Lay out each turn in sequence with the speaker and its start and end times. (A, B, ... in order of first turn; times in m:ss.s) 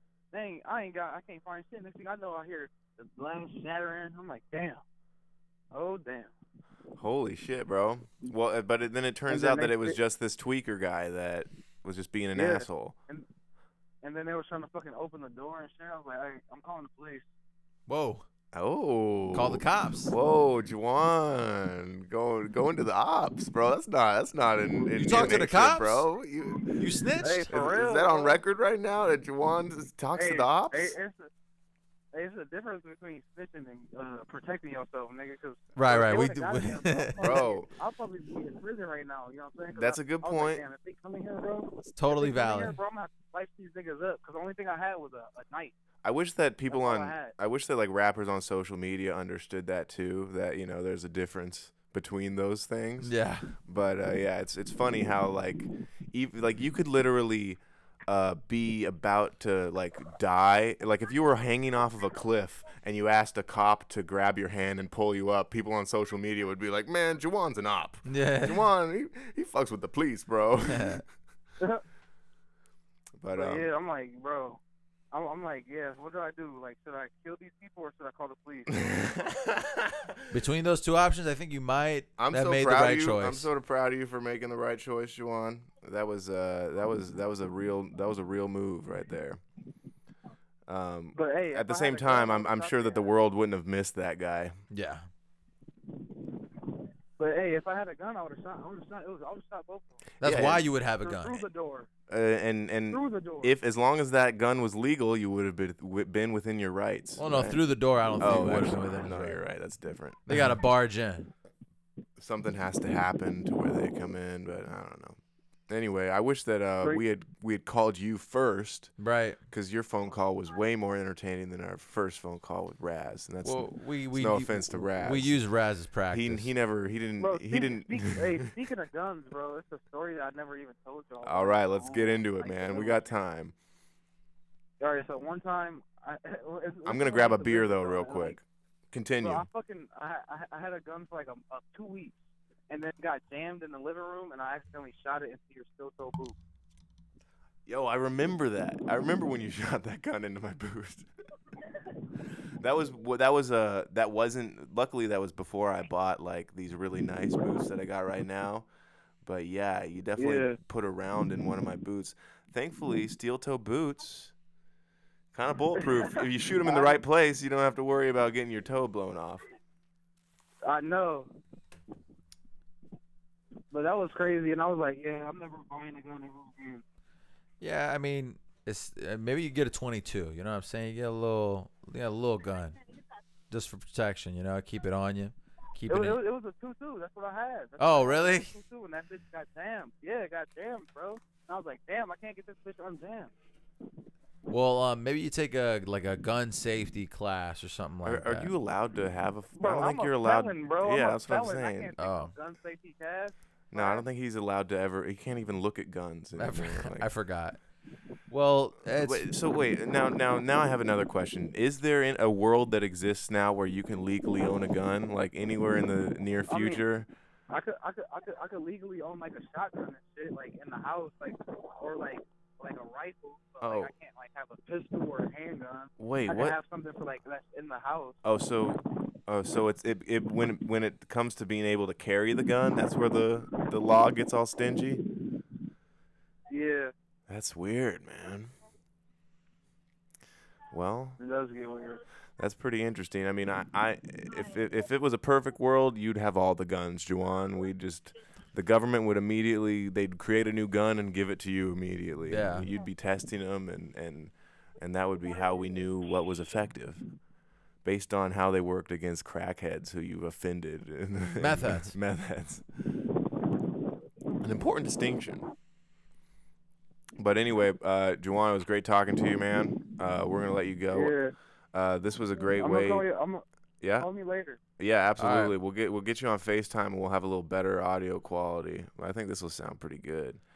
0:00.3-0:04.8 A
0:05.7-0:06.3 A
0:07.0-0:12.9 B
0:09.3-0:10.0 A
0:12.3-0:13.2 A
0:14.0-0:17.2 A
0:17.9-0:18.2 C
0:18.5-0:26.7 B
0:19.3-0:20.1 C
0:24.7-0:25.4 A
0:25.0-0:26.1 C
0:26.6-0:28.4 A
0:26.8-0:27.4 C
0:27.5-0:30.9 B
0:30.1-0:31.3 A
0:32.1-0:45.7 A
0:35.8-0:37.3 C
0:37.2-0:37.7 B
0:39.7-0:40.6 B
0:41.9-0:42.8 C
0:46.0-1:11.0 B
0:46.7-0:47.3 A
0:53.0-0:53.5 C
1:08.0-1:08.6 C
1:10.7-1:11.0 C
1:13.2-1:13.7 B
1:13.3-1:14.6 A
1:15.1-1:18.8 A
1:18.8-1:20.1 B
1:20.3-1:23.5 C
1:22.2-1:29.4 B
1:30.7-1:34.6 B
1:31.1-1:33.1 A
1:34.7-1:35.1 C
1:37.2-1:41.9 A
1:40.2-1:41.4 C
1:40.2-1:40.6 B
1:42.1-1:47.6 B
1:42.9-1:43.5 A
1:47.2-1:49.4 C
1:48.2-1:50.5 B
1:50.3-1:51.3 C
1:52.2-1:55.2 B
1:55.7-1:58.9 B
1:59.0-1:59.4 C
1:59.5-2:05.4 B
2:03.4-2:06.5 C
2:06.1-2:08.3 B
2:07.2-2:13.1 A
2:11.2-2:13.5 B
2:14.8-2:18.4 A
2:16.8-2:19.4 B
2:19.2-2:22.2 A
2:22.7-2:26.4 A
2:27.7-2:31.1 B
2:32.6-2:38.7 B
2:39.2-2:44.3 B
2:40.2-2:40.6 A
2:45.3-2:49.4 B
2:45.8-2:47.0 A
2:50.6-2:51.3 A
2:53.7-2:56.8 A
2:57.6-3:02.8 C
3:03.5-3:06.2 C
3:05.9-3:13.3 A
3:07.8-3:08.5 C
3:14.5-3:18.5 C
3:18.0-3:21.9 B
3:19.6-3:24.0 A
3:22.0-3:22.3 C
3:23.7-3:27.1 B
3:26.4-3:27.6 C
3:28.3-3:29.3 C
3:28.9-3:37.1 B
3:36.5-3:36.8 A
3:37.5-3:48.2 A
3:43.6-3:43.9 B
3:46.0-3:46.6 B
3:48.2-3:55.0 B
3:56.5-3:56.9 A
3:57.3-3:58.5 B
4:00.7-4:01.2 B
4:01.2-4:02.0 A
4:02.4-4:17.0 B
4:12.3-4:12.7 C
4:17.8-4:22.6 B
4:21.4-4:21.9 C
4:24.4-4:25.4 B
4:27.2-4:31.1 B
4:30.9-4:31.3 A
4:31.7-4:33.0 B
4:32.5-4:33.4 A
4:33.8-4:34.1 B
4:34.0-4:34.6 A
4:34.8-4:40.4 B
4:35.2-4:35.5 C